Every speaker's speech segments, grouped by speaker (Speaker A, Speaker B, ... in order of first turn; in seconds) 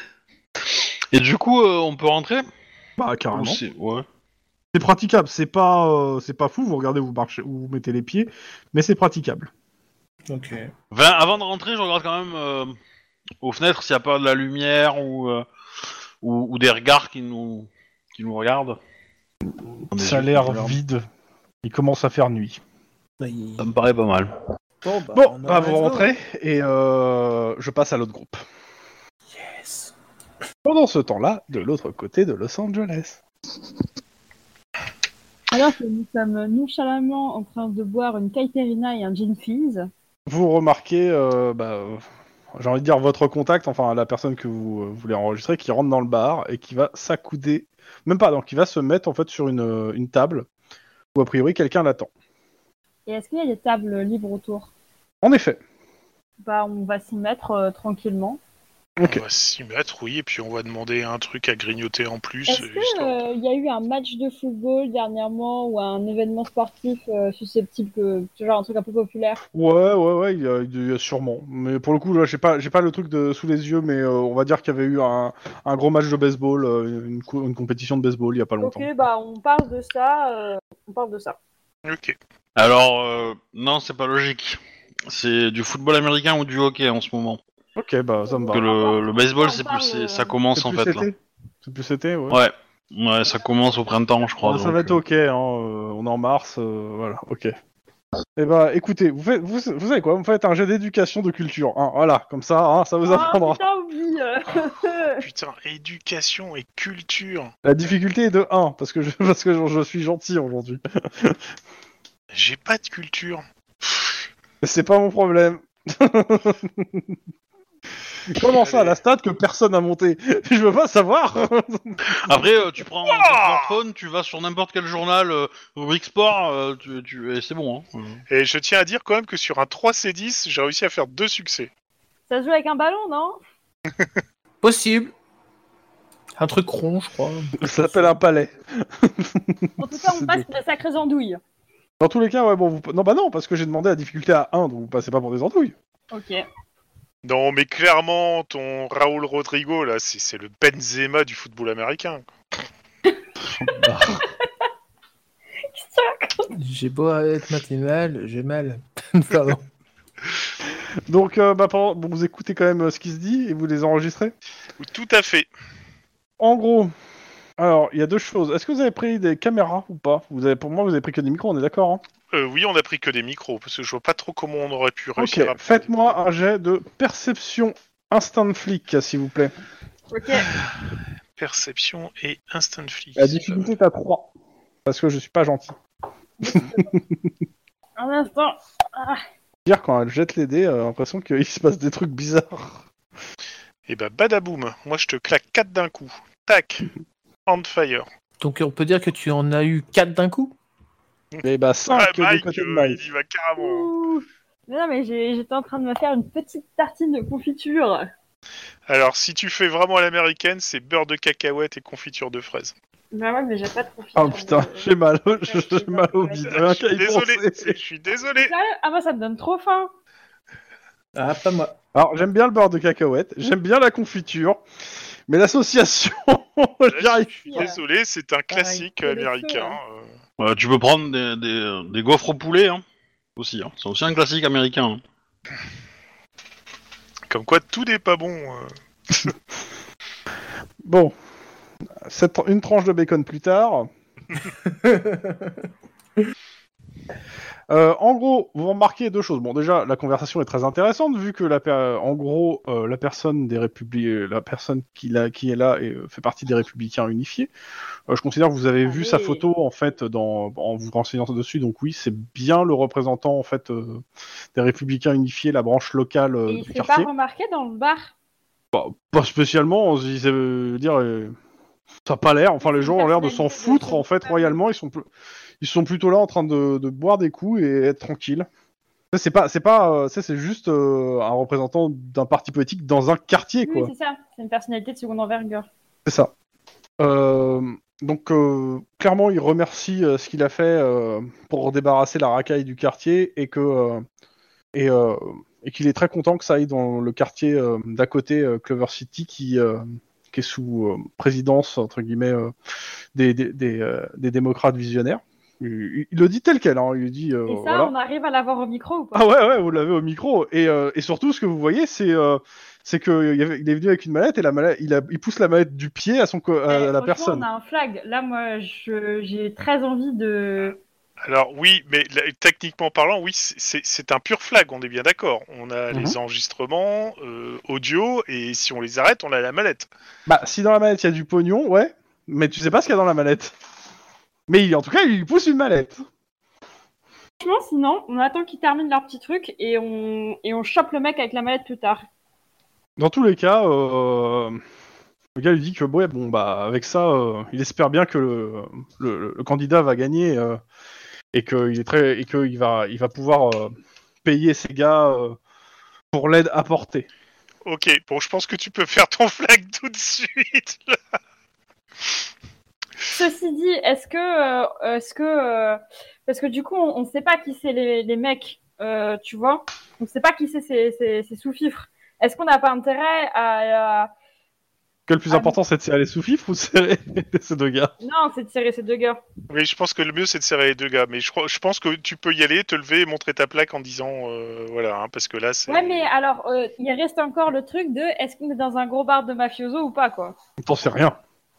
Speaker A: 1.1-2.5, 3.3-4.0, 10.9-12.8, 13.4-15.4, 16.2-18.8, 19.9-20.8, 23.6-24.3, 82.5-87.4, 88.5-91.0, 92.3-95.0, 122.1-128.2, 230.4-232.8, 233.3-235.0
Speaker B: 3.0-3.6, 4.7-9.5, 19.8-21.0, 21.6-22.6, 25.1-28.4, 30.6-33.2, 40.3-42.0, 42.5-50.5, 51.1-52.1, 55.2-55.6, 59.0-59.2, 69.5-78.9, 87.8-88.6, 90.5-92.4, 94.4-97.5, 98.3-103.6, 107.6-111.4, 114.6-117.1, 118.3-122.0, 137.6-140.4, 142.0-145.7, 153.8-154.2, 161.1-164.3, 166.4-166.9, 167.6-172.0, 175.2-179.5, 183.2-184.3, 184.8-185.8, 186.5-187.0, 189.7-192.8, 201.4-203.0, 214.2-217.8, 221.9-224.6, 225.3-227.7, 240.8-241.1, 242.0-243.9, 247.7-257.5, 258.1-264.0, 264.5-267.1, 268.7-271.3, 272.1-275.1, 275.6-278.5, 279.1-283.9, 286.1-286.3, 287.0-294.0, 294.7-302.5, 303.1-307.9, 309.1-317.4, 325.9-326.2, 330.2-333.5, 334.5-336.0, 343.0-344.6, 345.4-350.6, 351.3-353.7, 354.2-355.4, 356.1-357.1, 375.1-377.9, 390.6-391.2
Speaker C: 10.3-10.7, 23.2-23.7, 24.8-26.1, 29.3-29.9, 134.6-135.1, 136.4-138.1, 156.5-159.6, 198.4-200.5, 221.1-221.7, 244.7-245.5
Speaker D: 35.5-39.9, 53.0-54.7, 56.4-58.4, 62.5-69.4, 78.6-81.4, 88.3-90.3, 103.0-105.2, 132.3-133.4, 139.8-141.4, 146.1-146.4, 155.7-156.5, 180.1-180.5, 186.4-186.9, 188.0-189.2, 203.6-208.1, 213.1-214.9, 215.4-216.6, 218.4-219.9, 227.5-227.8, 228.5-229.8, 258.8-259.4, 266.5-268.1, 272.6-274.6, 283.6-285.7, 307.5-309.2, 316.7-320.8, 337.4-342.0, 363.1-374.1, 375.3-375.6, 378.0-379.2, 385.7-390.3
Speaker E: 59.0-63.2, 81.8-82.2, 105.2-107.5, 112.3-114.1, 118.5-119.0, 123.2-123.6, 128.3-131.7, 147.2-152.2, 164.8-165.5, 172.3-176.2, 181.4-183.7, 193.9-196.9, 197.5-198.1, 201.3-203.9, 208.9-212.7, 216.5-218.5, 226.9-230.1, 237.3-238.7, 321.2-329.9, 357.6-361.0, 379.5-386.1